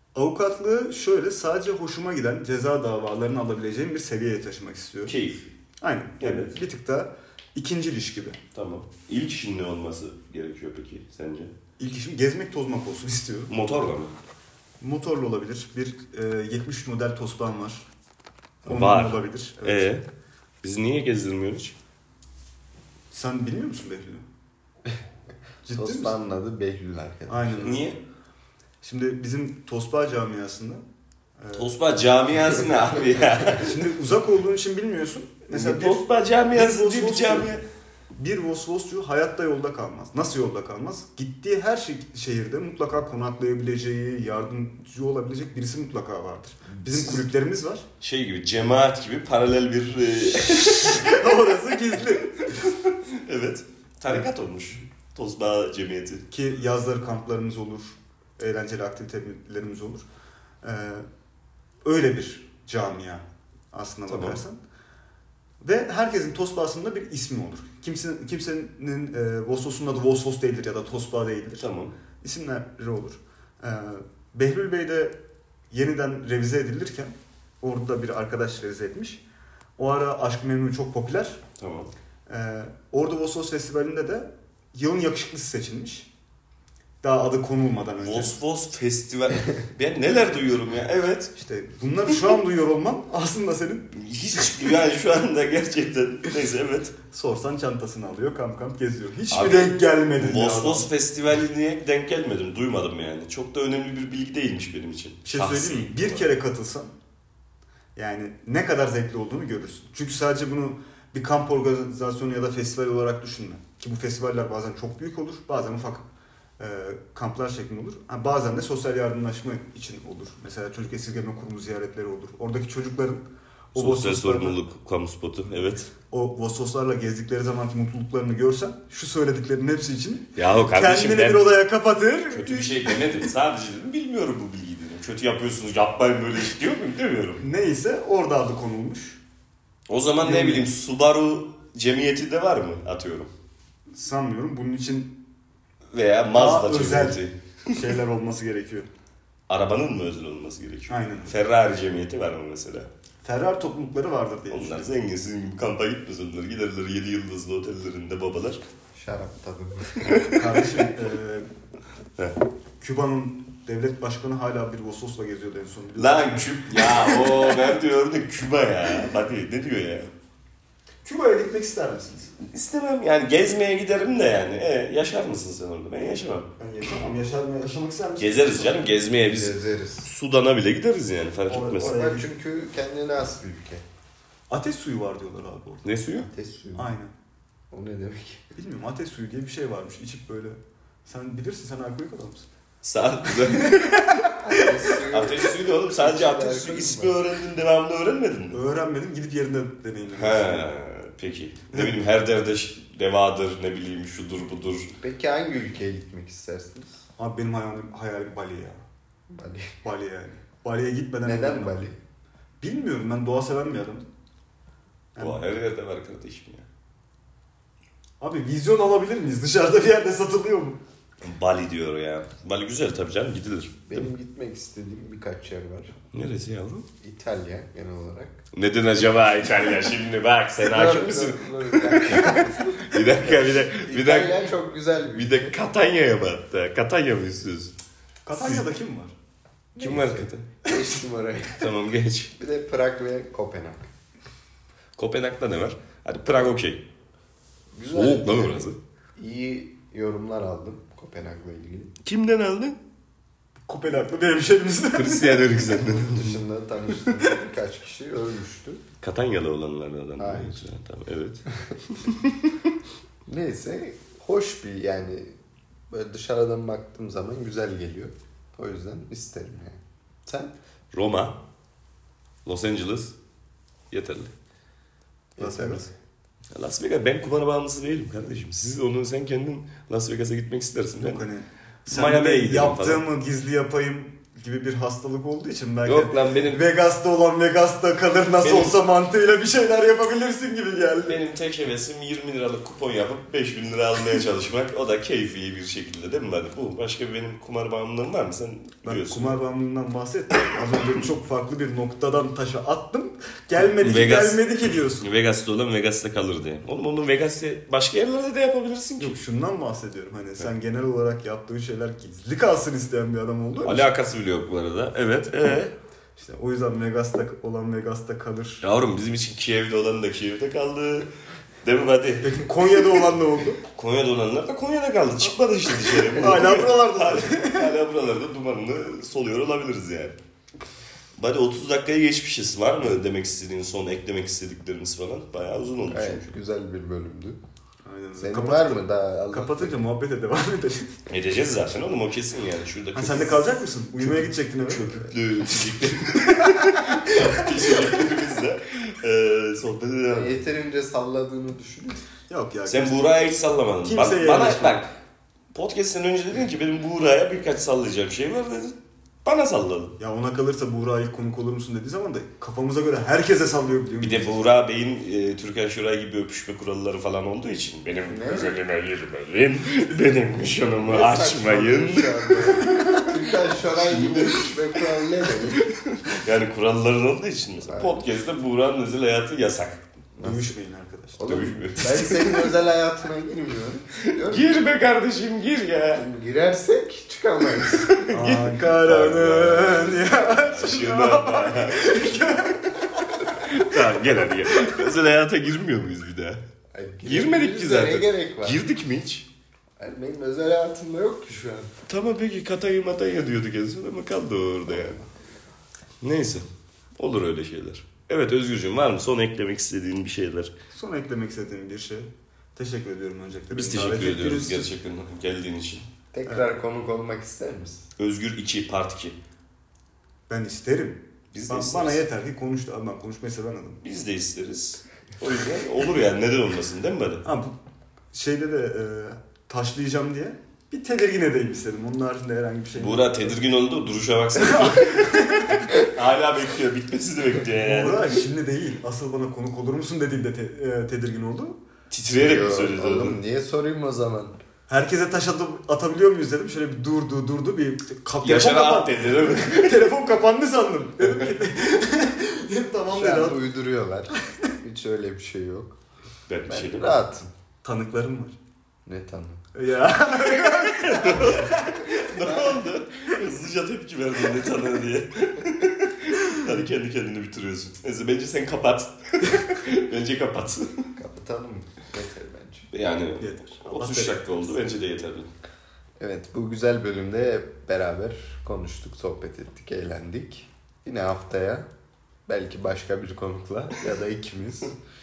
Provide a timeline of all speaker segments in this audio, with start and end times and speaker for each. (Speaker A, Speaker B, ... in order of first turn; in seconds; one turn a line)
Speaker A: 0.1-5.2
Speaker B: 5.1-5.5
Speaker A: 5.8-8.4
Speaker B: 6.2-6.6
Speaker B: 8.5-11.5
Speaker A: 11.8-13.5
Speaker B: 13.5-14.1
Speaker A: 14.8-17.9
Speaker A: 18.6-19.9
Speaker B: 18.7-20.0
Speaker B: 20.6-21.8
Speaker A: 23.1-24.2
Speaker A: 25.6-26.1
Speaker C: 25.7-27.8
Speaker A: 27.3-27.9
Speaker B: 27.6-28.0
Speaker A: 28.8-30.8
Speaker A: 31.4-31.7
Speaker B: 31.5-33.8
Speaker A: 33.5-37.6
Speaker B: 35.5-37.6
Speaker A: 38.1-47.9
Speaker B: 46.7-47.2
Speaker B: 48.0-51.2
Speaker A: 50.5-52.5
Speaker B: 51.9-56.2
Speaker A: 56.3-60.1
Speaker A: 60.6-61.1
Speaker A: 61.8-64.6
Speaker B: 64.1-64.4
Speaker A: 65.6-71.7
Speaker B: 71.6-71.9
Speaker A: 72.2-75.2
Speaker A: 75.7-79.2
Speaker A: 79.8-81.4
Speaker B: 81.6-81.9
Speaker A: 82.3-86.1
Speaker A: 87.0-88.4
Speaker B: 88.0-91.3
Speaker A: 91.4-94.0
Speaker B: 93.9-97.0
Speaker A: 97.1-100.9
Speaker B: 99.3-106.3
Speaker A: 105.3-106.9
Speaker A: 108.0-116.0
Speaker A: 116.6-124.6
Speaker B: 123.8-125.9
Speaker A: 126.1-133.2
Speaker B: 130.4-131.5
Speaker B: 132.3-137.4
Speaker A: 137.4-139.2
Speaker B: 139.9-143.3
Speaker A: 140.2-140.7
Speaker A: 143.9-145.2
Speaker B: 145.9-147.8
Speaker A: 146.3-147.2
Speaker A: 147.7-148.9
Speaker B: 149.5-152.9
Speaker A: 150.9-151.3
Speaker A: 153.2-154.9
Speaker B: 154.5-158.6
Speaker C: 158.9-160.2
Speaker B: 160.0-160.7
Speaker A: 160.3-161.5
Speaker A: 162.8-167.6
Speaker B: 166.0-170.1
Speaker A: 171.0-172.3
Speaker B: 172.4-176.5
Speaker A: 176.6-178.9
Speaker B: 178.2-182.0
Speaker C: 179.2-180.1
Speaker A: 181.5-182.3
Speaker C: 181.8-183.8
Speaker A: 184.5-185.8
Speaker B: 185.8-186.3
Speaker C: 186.2-186.9
Speaker A: 186.8-187.1
Speaker C: 187.7-188.4
Speaker A: 188.6-192.5
Speaker B: 192.8-198.6
Speaker A: 193.5-193.8
Speaker C: 194.4-197.2
Speaker A: 198.5-200.7
Speaker B: 200.2-204.9
Speaker A: 201.7-202.0
Speaker C: 205.0-207.0
Speaker A: 207.2-208.8
Speaker C: 209.3-209.8
Speaker A: 209.8-211.8
Speaker C: 211.2-212.0
Speaker A: 212.6-214.1
Speaker A: 215.2-215.4
Speaker B: 215.2-216.7
Speaker A: 218.2-220.8
Speaker B: 221.2-223.9
Speaker C: 223.9-225.9
Speaker B: 226.1-226.9
Speaker C: 227.0-228.4
Speaker B: 228.5-234.4
Speaker C: 230.6-235.6
Speaker B: 235.1-237.7
Speaker A: 238.2-239.1
Speaker B: 238.3-238.7
Speaker C: 239.8-241.7
Speaker B: 239.8-240.5
Speaker B: 241.6-242.3
Speaker C: 242.4-243.9
Speaker B: 245.0-246.8
Speaker C: 247.7-248.6
Speaker B: 247.9-248.8
Speaker C: 249.2-251.9
Speaker B: 252.0-252.8
Speaker A: 253.7-255.7
Speaker B: 254.9-256.4
Speaker C: 256.0-258.8
Speaker B: 259.0-262.6
Speaker C: 260.2-260.7
Speaker C: 263.3-265.4
Speaker C: 265.9-270.5
Speaker B: 270.9-271.4
Speaker B: 272.5-273.1
Speaker B: 273.9-274.3
Speaker C: 275.4-275.9
Speaker A: 275.4-275.9
Speaker B: 276.5-281.3
Speaker A: 281.0-291.2
Speaker B: 281.9-283.0
Speaker B: 285.9-286.7
Speaker B: 288.4-288.8
Speaker B: 291.1-299.3
Speaker A: 298.8-305.1
Speaker B: 303.8-309.2
Speaker A: 309.0-313.9
Speaker B: 313.6-315.7
Speaker A: 316.2-318.6
Speaker B: 318.6-321.1
Speaker B: 321.6-322.4
Speaker A: 322.2-323.6
Speaker B: 323.8-330.2
Speaker A: 326.1-327.7
Speaker B: 331.2-336.3
Speaker C: 335.9-337.4
Speaker A: 337.9-340.9
Speaker C: 338.2-339.8
Speaker B: 341.1-350.4
Speaker A: 342.9-345.0
Speaker C: 350.1-352.0
Speaker A: 352.3-353.1
Speaker B: 352.7-354.9
Speaker A: 353.8-354.8
Speaker B: 355.5-360.0
Speaker A: 360.0-364.3
Speaker B: 364.0-373.1
Speaker C: 368.1-368.6
Speaker C: 370.8-375.7
Speaker B: 373.7-379.8
Speaker C: 377.6-378.0
Speaker C: 380.2-380.5
Speaker A: 380.2-381.4
Speaker C: 381.2-384.6
Speaker B: 381.2-382.5
Speaker B: 384.1-386.1
Speaker C: 385.9-387.9
Speaker B: 387.9-392.6
Speaker A: 388.1-393.3
Speaker B: 393.1-396.4
Speaker C: 396.7-398.6
Speaker B: 397.0-399.3
Speaker C: 399.8-401.7
Speaker B: 401.9-405.0
Speaker C: 404.7-405.1
Speaker B: 406.0-406.5
Speaker B: 407.0-410.5
Speaker A: 410.7-414.7
Speaker B: 413.5-415.9
Speaker C: 416.1-417.9
Speaker A: 416.3-416.5
Speaker B: 418.0-419.2
Speaker A: 420.3-423.8
Speaker B: 421.3-422.0
Speaker B: 423.8-427.2
Speaker A: 427.2-427.5
Speaker A: 428.1-433.4
Speaker B: 432.8-438.1
Speaker A: 434.4-435.8
Speaker A: 437.5-441.6
Speaker B: 441.9-443.2
Speaker C: 442.2-444.4
Speaker A: 444.7-453.4
Speaker B: 448.2-449.9
Speaker C: 452.9-455.8
Speaker B: 456.3-457.0
Speaker C: 456.5-457.3
Speaker A: 457.6-458.4
Speaker C: 458.9-459.4
Speaker A: 459.6-461.6
Speaker B: 460.4-470.9
Speaker C: 462.2-462.5
Speaker C: 471.0-472.7
Speaker B: 472.7-475.3
Speaker A: 473.2-474.6
Speaker C: 476.0-481.7
Speaker C: 482.3-484.8